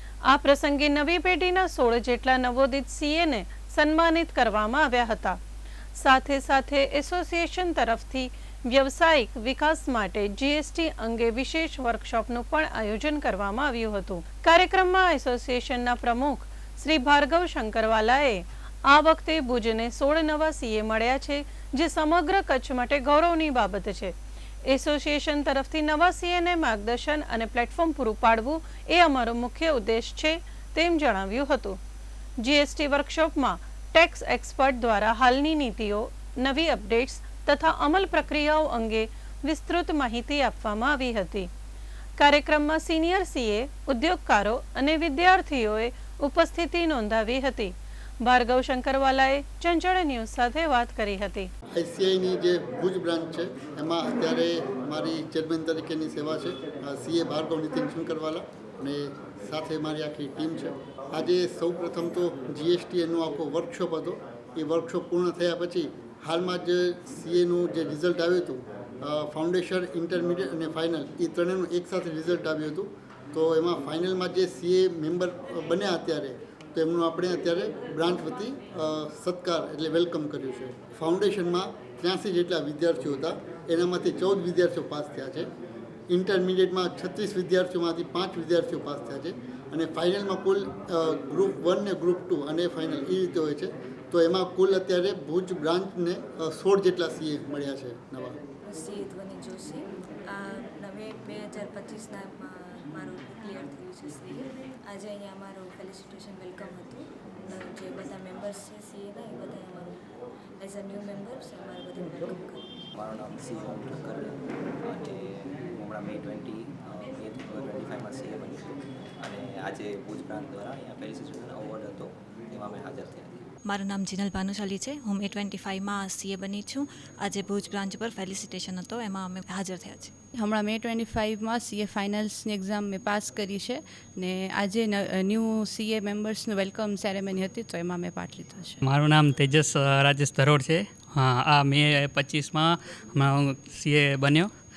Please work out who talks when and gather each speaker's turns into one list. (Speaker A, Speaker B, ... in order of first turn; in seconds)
Speaker A: 0.2-5.4, 6.0-31.8, 32.4-41.5, 42.2-51.5
Speaker B: 51.7-85.5, 86.1-98.4
Speaker C: 98.7-110.0, 110.6-112.8
Speaker D: 112.9-123.5
Speaker E: 123.6-130.1
Speaker F: 130.3-138.8
Speaker G: 138.8-144.5